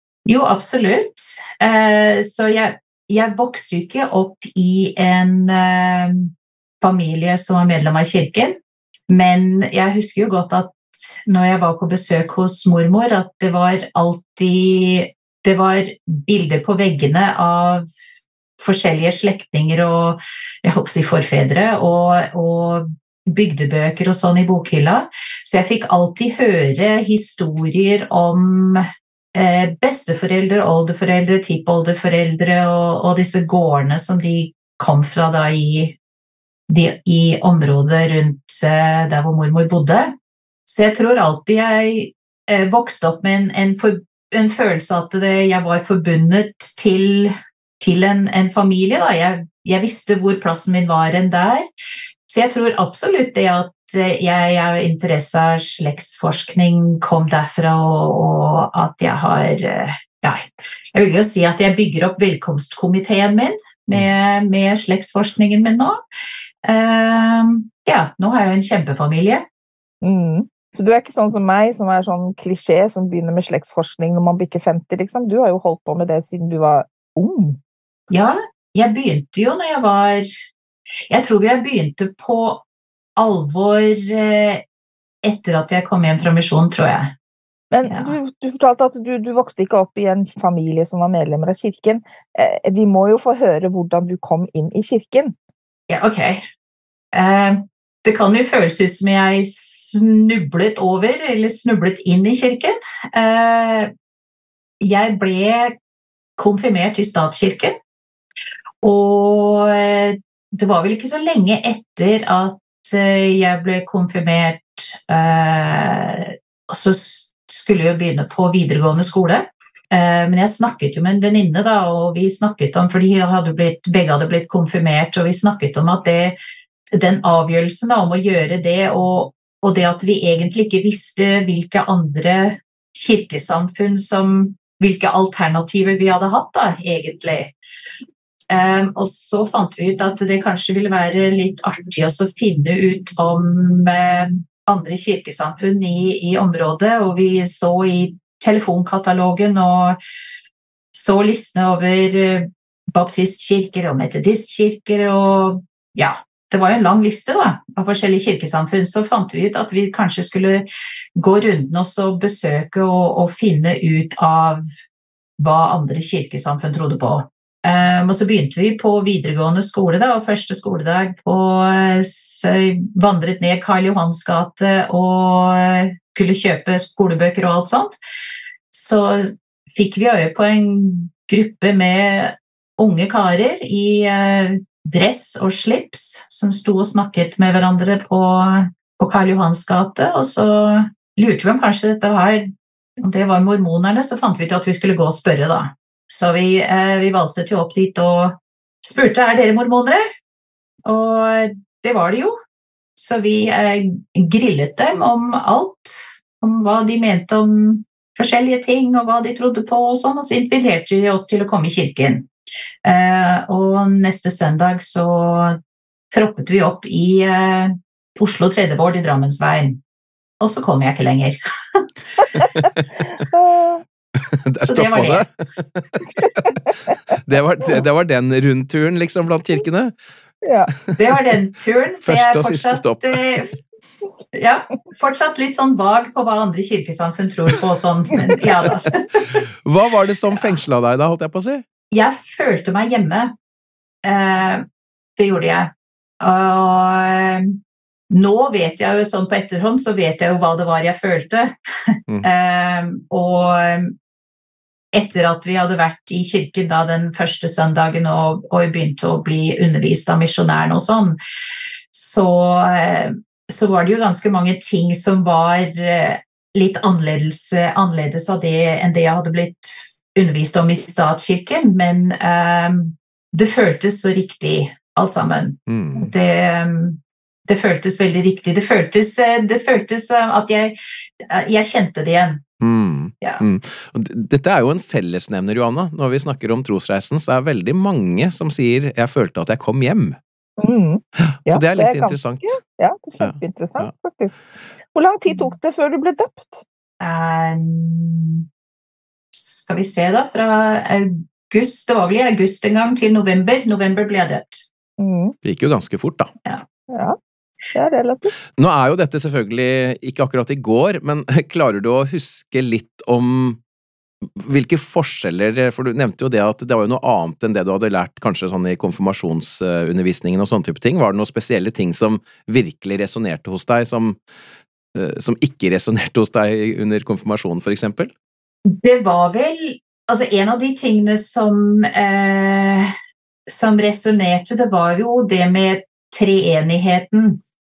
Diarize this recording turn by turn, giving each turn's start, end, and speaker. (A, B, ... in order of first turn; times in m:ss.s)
0:00.2-0:08.6 A
0:09.1-0:17.9 A
0:18.6-0:36.0 A
0:36.7-0:40.1 A
0:40.6-0:51.6 A
0:52.3-1:06.0 A
1:06.6-1:09.4 A
1:10.0-1:17.6 B
1:18.1-1:20.3 A
1:21.1-1:22.6 A
1:23.2-1:24.6 A
1:25.2-1:27.1 A
1:27.7-1:35.4 B
1:27.8-1:28.1 A
1:35.9-1:36.4 A
1:37.1-1:43.9 A
1:44.8-1:45.8 A
1:46.4-1:47.8 A
1:48.8-2:06.4 A
2:06.9-2:17.5 A
2:18.5-2:30.0 A
2:30.9-2:44.6 A
2:45.4-2:58.0 A
2:58.7-3:20.0 A
3:20.8-3:22.3 A
3:23.0-3:32.3 A
3:32.8-3:35.6 A
3:36.1-3:39.8 A
3:40.4-3:42.3 A
3:43.1-3:43.8 B
3:44.2-3:49.9 C
3:44.6-3:45.2 A
3:50.4-3:50.7 B
3:50.8-3:51.2 C
3:51.0-3:53.5 A
3:52.0-3:53.2 C
3:54.3-3:59.4 A
3:59.2-4:01.6 C
4:00.3-4:00.6 A
4:01.9-4:03.3 A
4:04.0-4:04.6 A
4:05.2-4:07.6 A
4:08.1-4:13.9 A
4:14.9-4:21.2 A
4:21.9-4:40.8 A
4:35.7-4:36.1 C
4:41.3-4:42.4 A
4:42.6-4:50.2 C
4:50.6-4:54.4 B
4:51.2-4:52.6 C
4:53.2-4:53.9 C
4:54.9-4:56.6 B
4:57.0-4:58.4 A
4:59.3-5:04.6 A
5:05.0-5:05.4 B
5:05.4-5:06.3 C
5:06.9-5:07.2 B
5:07.7-5:08.3 B
5:08.6-5:13.6 C
5:14.2-5:24.2 C
5:24.9-5:28.1 C
5:28.7-5:32.9 A
5:33.5-5:37.4 A